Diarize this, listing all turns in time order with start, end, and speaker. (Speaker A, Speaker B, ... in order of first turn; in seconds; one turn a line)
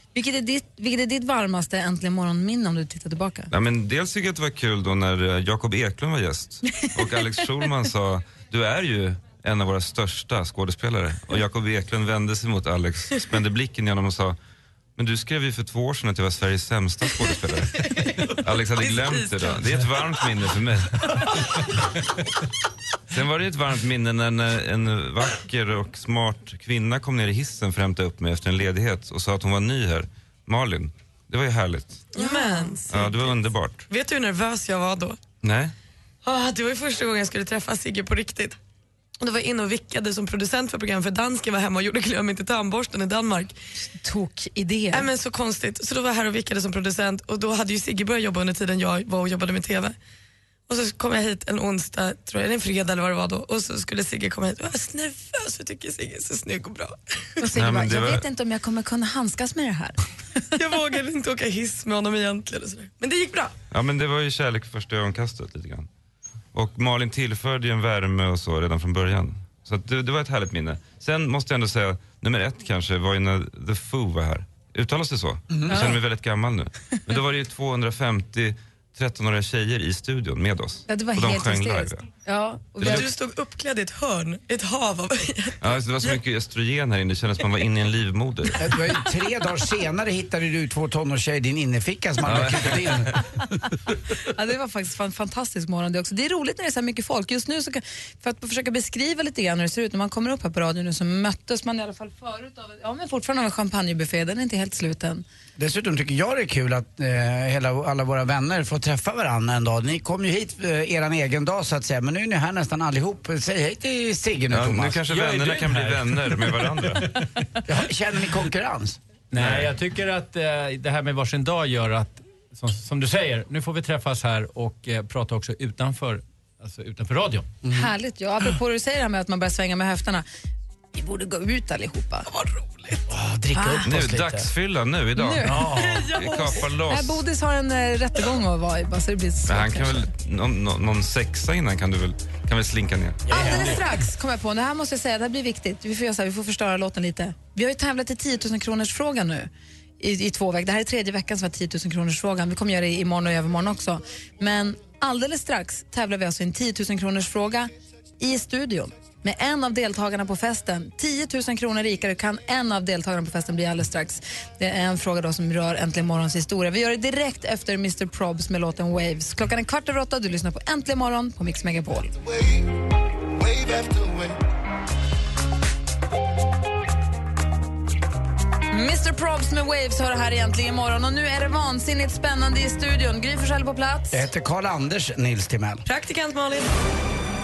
Speaker A: 0.1-3.5
Speaker B: 3.5-14.4
Speaker B: 15.0-17.8
Speaker C: 17.8-18.2
Speaker B: 18.4-21.1
Speaker C: 18.8-19.7
Speaker B: 23.1-32.1
Speaker C: 32.1-33.3
Speaker A: 32.2-32.9
Speaker B: 32.9-33.9
Speaker C: 33.9-35.2
Speaker B: 35.4-35.7
Speaker C: 36.2-38.6
Speaker C: 39.2-43.5
Speaker A: 43.9-45.1
Speaker C: 44.9-50.0
Speaker C: 50.7-57.0
Speaker A: 57.4-60.0
Speaker B: 57.5-58.2
Speaker C: 60.6-63.5
Speaker B: 63.7-65.9
Speaker B: 66.5-82.1
Speaker D: 75.5-75.9
Speaker A: 80.9-83.0
Speaker B: 82.8-83.1
Speaker C: 82.8-86.2
Speaker B: 85.6-88.7
Speaker D: 88.6-93.2
Speaker B: 92.3-93.0
Speaker A: 94.3-105.2
Speaker D: 105.6-115.0
Speaker B: 114.5-117.1
Speaker E: 115.1-117.2
Speaker D: 117.7-119.0
Speaker E: 119.3-127.5
Speaker B: 119.4-119.7
Speaker D: 127.6-127.9
Speaker A: 127.7-130.3
Speaker A: 130.9-132.3
Speaker C: 132.3-133.0
Speaker D: 133.1-134.5
Speaker A: 133.6-133.9
Speaker B: 133.8-137.2
Speaker A: 135.2-135.7
Speaker E: 135.5-136.0
Speaker C: 135.7-136.6
Speaker A: 136.9-140.1
Speaker B: 139.5-143.6
Speaker E: 143.3-143.8
Speaker A: 143.3-172.1
Speaker A: 178.7-184.2
Speaker D: 184.1-185.8
Speaker C: 185.8-186.7